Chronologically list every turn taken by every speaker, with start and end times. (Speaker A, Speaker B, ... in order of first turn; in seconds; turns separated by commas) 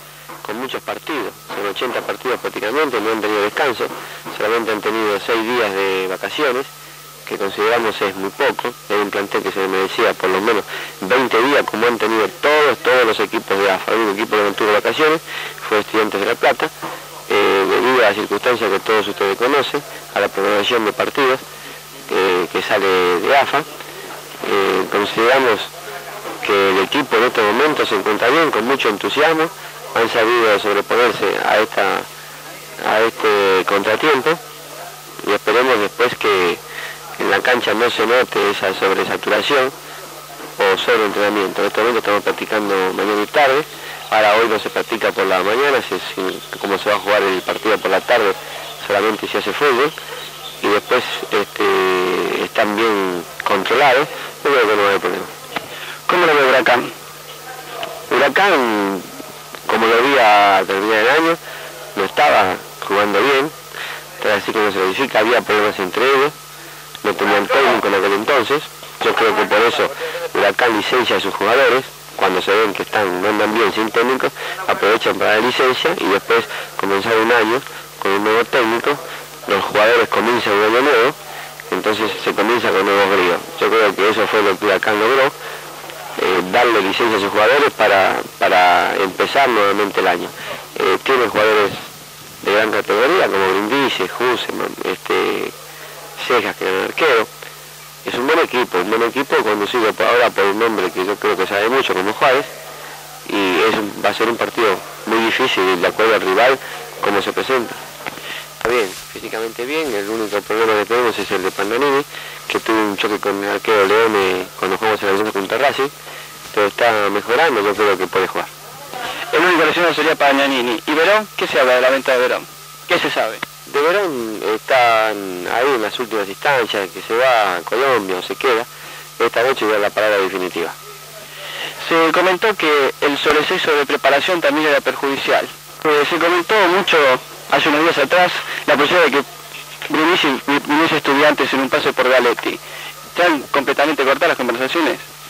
Speaker A: 0.4-6.7, Speaker A: 7.3-16.7, Speaker A: 17.3-21.4, Speaker A: 22.1-23.7, Speaker A: 24.4-25.7, Speaker A: 26.4-32.1, Speaker A: 32.8-34.4, Speaker A: 35.2-36.6, Speaker A: 37.2-39.7, Speaker A: 40.6-49.9, Speaker A: 50.6-55.3, Speaker B: 56.1-56.9, Speaker A: 58.1-59.1, Speaker A: 59.7-61.4, Speaker A: 62.0-63.5, Speaker A: 64.2-66.3, Speaker A: 67.0-81.2, Speaker A: 81.7-85.3, Speaker A: 86.2-91.9, Speaker A: 92.4-95.5, Speaker A: 96.2-97.3, Speaker A: 98.0-102.5, Speaker A: 103.3-107.8, Speaker A: 108.6-115.9, Speaker A: 116.5-118.5, Speaker B: 119.3-123.4, Speaker A: 123.7-130.8, Speaker B: 131.8-139.3, Speaker B: 139.9-142.6, Speaker B: 143.1-145.1